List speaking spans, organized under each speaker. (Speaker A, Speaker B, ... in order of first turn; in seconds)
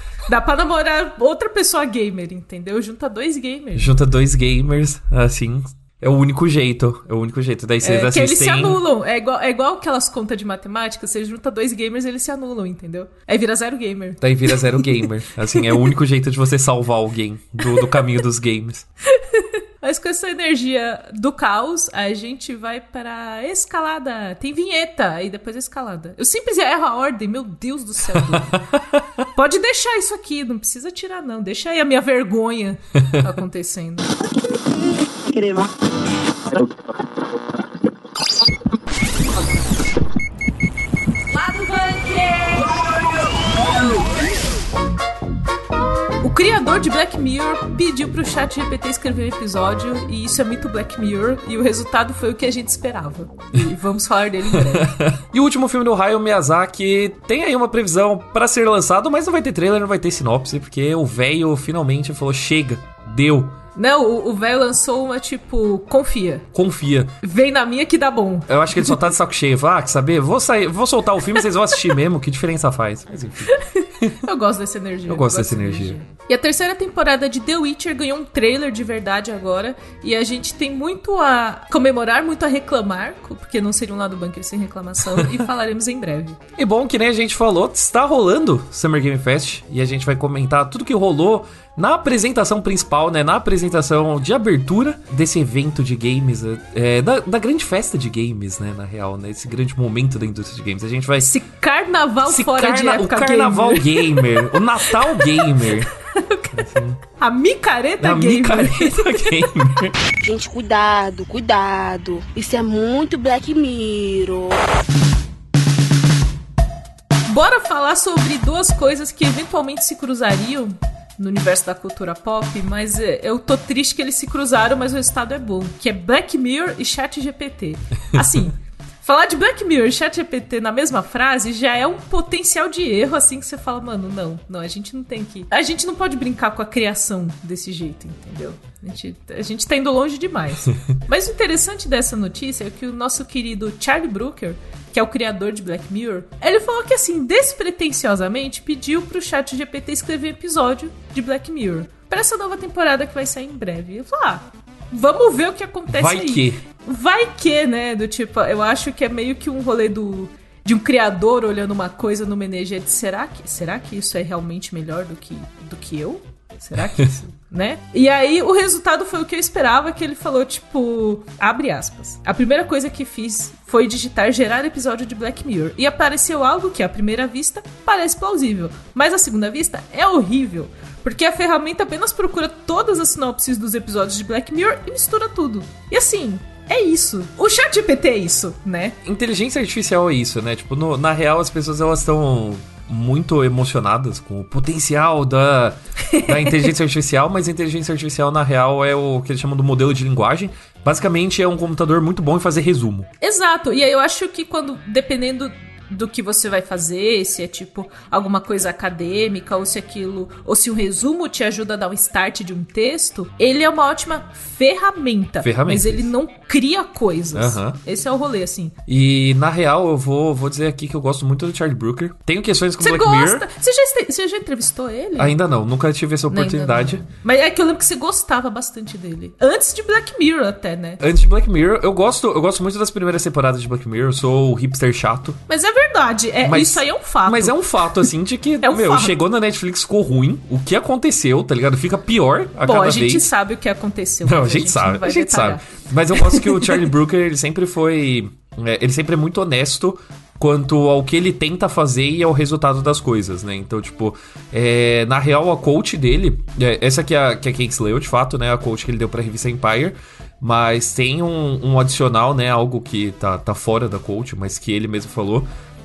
Speaker A: 0.3-4.0, 7.8-15.0, 17.7-18.0, 19.1-28.6, 29.3-34.1, 41.5-42.8, 46.2-55.0, 63.8-66.5, 67.2-69.0, 73.5-86.4, 101.2-109.5, 117.3-188.9, 196.1-196.7, 203.2-218.7, 222.8-225.4, 226.3-231.0, 235.5-238.1, 238.6-239.2, 242.6-246.8
Speaker B: 3.7-8.8, 14.2-18.9, 54.5-63.6, 66.5-67.1, 68.5-74.2, 75.1-76.0, 85.2-85.4, 86.6-101.3, 102.2-105.9, 106.5-107.0, 108.0-109.9, 128.1-128.4, 155.9-156.6, 189.0-203.1, 215.4-216.1, 217.3-217.8, 218.9-223.5, 225.2-227.0, 231.0-235.4, 236.4-243.3, 244.2-265.5
Speaker C: 35.4-35.7, 110.2-114.6